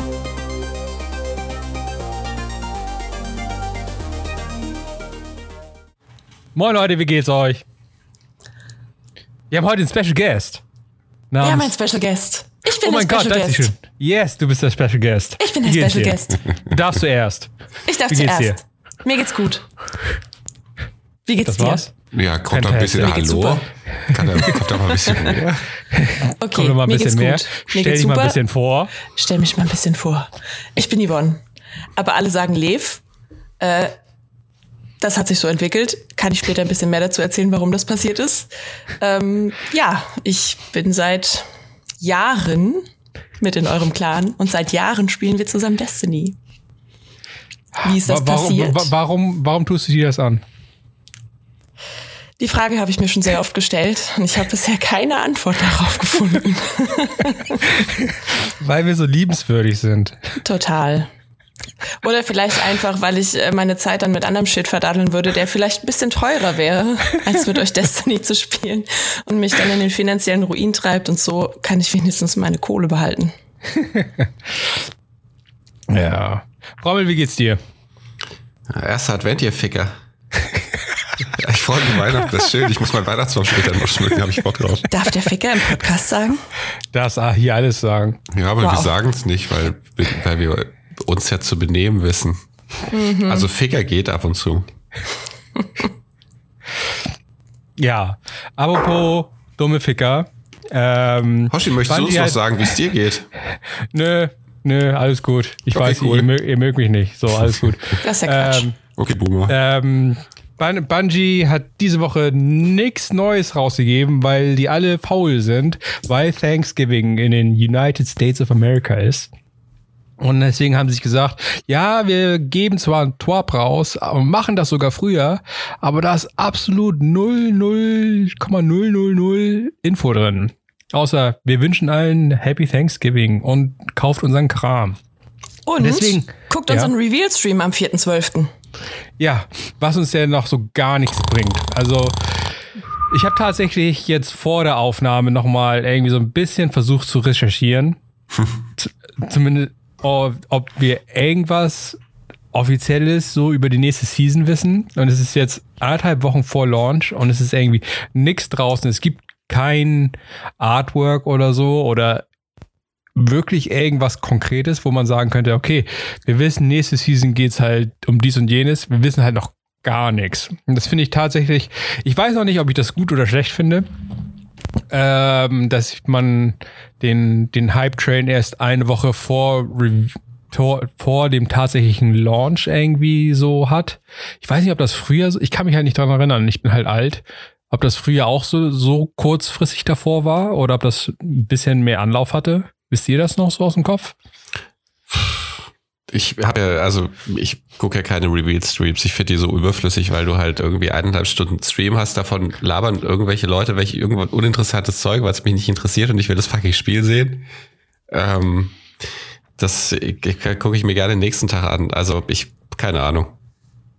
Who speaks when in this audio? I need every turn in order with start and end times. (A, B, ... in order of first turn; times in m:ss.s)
0:06.6-0:07.6 A
0:09.5-0:10.6 A
0:11.3-0:11.7 A
0:11.4-0:13.7 B
0:12.8-0:17.5 A
0:15.4-0:16.4 B
0:17.9-0:19.7 B
0:18.1-0:18.6 A
0:21.3-0:21.8 B
0:21.5-0:21.9 A
0:22.1-0:25.6 C
0:22.5-0:23.2 A
0:23.0-0:23.6 B
0:24.0-0:24.6 A
0:24.6-0:25.4 B
0:25.9-0:28.9 A
0:26.4-0:28.4 B
0:29.1-0:31.4 B
0:32.0-0:33.0 B
0:33.6-0:33.9 B
0:35.0-0:41.5 B
0:42.0-0:42.8 B
0:43.4-0:46.4 B
0:47.8-0:50.4 A
0:47.8-0:48.9 B
0:52.4-0:57.6 B
0:57.7-1:00.4 A
1:00.4-1:01.1 B
1:02.0-1:13.3 B
1:13.8-1:14.3 A
1:15.9-1:17.6 A
1:18.7-1:19.9 C
1:21.3-1:24.9 C
1:24.9-1:26.4 B
1:26.9-1:28.2 A
1:28.3-1:32.4 C
1:28.6-1:28.9 B
1:32.9-1:33.5 B
1:33.2-1:34.7 C
1:37.8-1:42.6 A
1:41.5-1:43.3 C
1:43.9-1:48.8 A
1:45.7-1:46.3 C
1:48.0-1:48.6 B
1:49.0-1:49.5 C
1:49.5-1:59.3 A
2:00.2-2:15.0 A
2:15.7-2:18.5 B
2:15.8-2:16.9 A
2:19.2-2:22.4 A
2:23.1-2:28.0 A
2:28.8-2:32.0 A
2:32.5-2:42.3 A
2:43.2-2:53.9 A
2:54.9-3:14.2 A
3:15.1-3:15.4 C
3:16.1-3:27.5 C
3:28.1-3:28.8 C
3:29.6-3:33.4 C